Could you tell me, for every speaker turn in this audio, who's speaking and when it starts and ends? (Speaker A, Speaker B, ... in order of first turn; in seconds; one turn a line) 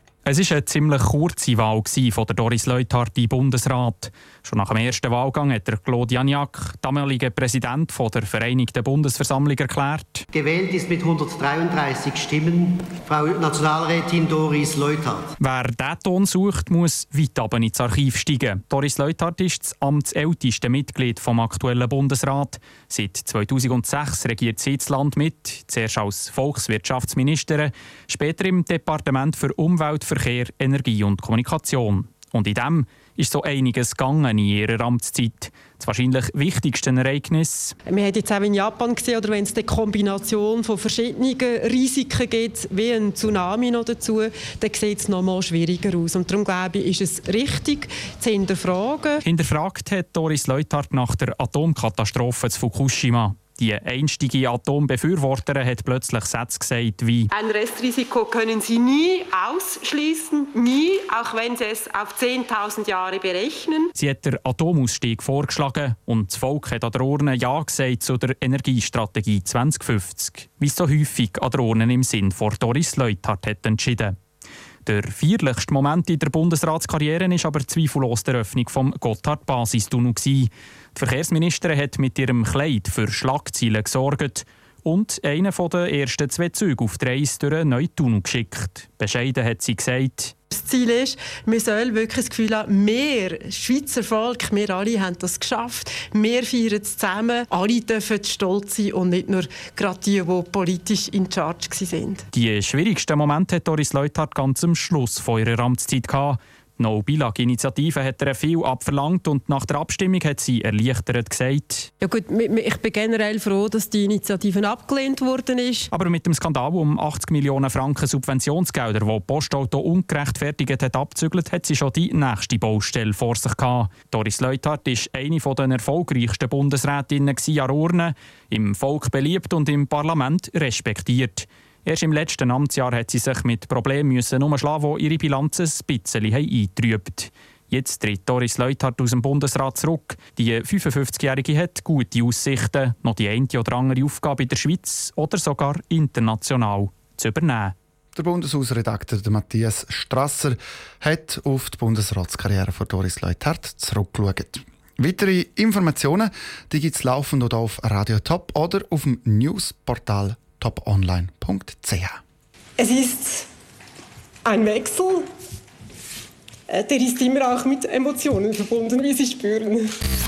Speaker A: 0.3-10.3
Speaker B: 10.3-15.3
Speaker A: 15.4-37.8
Speaker C: 37.9-49.2
Speaker A: 49.2-57.3
Speaker C: 57.3-63.9
Speaker A: 64.0-74.2
Speaker A: 74.8-90.3
Speaker C: 90.5-102.3
Speaker A: 102.3-111.9
Speaker C: 112.0-115.9
Speaker A: 115.9-147.7
Speaker D: 148.2-162.2
Speaker C: 162.8-163.5
Speaker C: 164.4-165.3
Speaker C: 166.7-169.9